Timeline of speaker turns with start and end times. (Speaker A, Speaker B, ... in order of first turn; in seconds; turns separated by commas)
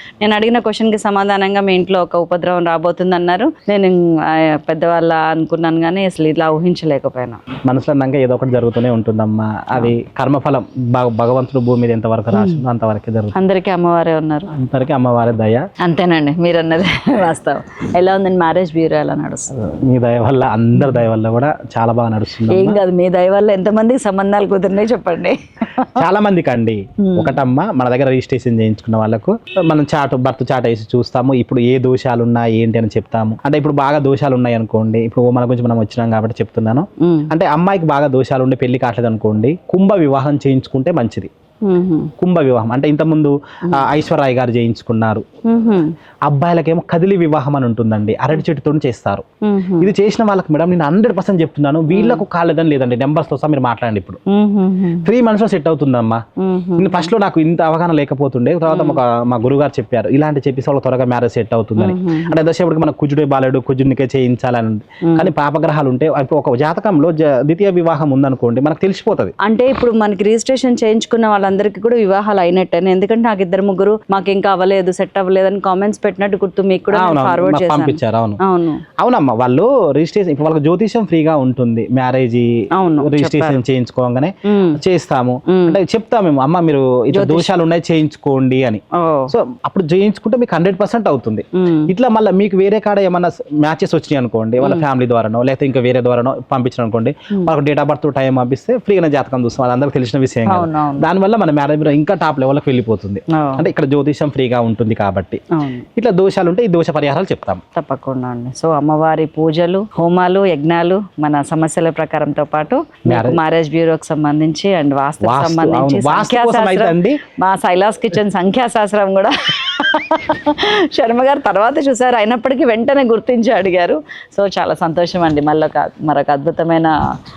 Speaker A: 0.2-7.4, Speaker B: 7.7-13.3, Speaker A: 12.3-12.6, Speaker A: 13.3-14.5, Speaker B: 14.5-15.6, Speaker A: 15.8-19.5, Speaker B: 19.5-22.8, Speaker A: 22.5-26.0, Speaker B: 25.9-41.3, Speaker A: 27.0-27.4, Speaker A: 37.0-37.3, Speaker A: 41.6-42.1, Speaker B: 42.2-45.2, Speaker A: 45.5-45.9, Speaker B: 46.3-49.2, Speaker A: 49.4-49.9, Speaker B: 49.8-54.2, Speaker A: 51.9-52.2, Speaker A: 54.3-55.1, Speaker B: 55.0-56.2, Speaker A: 56.4-57.1, Speaker B: 56.8-69.3, Speaker A: 58.7-59.0, Speaker A: 61.8-62.4, Speaker A: 69.4-78.8, Speaker B: 76.9-78.4, Speaker B: 79.0-105.4, Speaker A: 82.8-83.6, Speaker A: 84.5-84.8, Speaker A: 85.5-85.8, Speaker A: 87.1-87.5, Speaker A: 89.0-89.3, Speaker A: 91.6-91.9, Speaker A: 100.5-101.1, Speaker A: 103.3-103.6, Speaker A: 105.5-105.8, Speaker B: 106.0-107.6, Speaker A: 107.7-126.9, Speaker B: 113.1-113.4, Speaker B: 115.2-117.2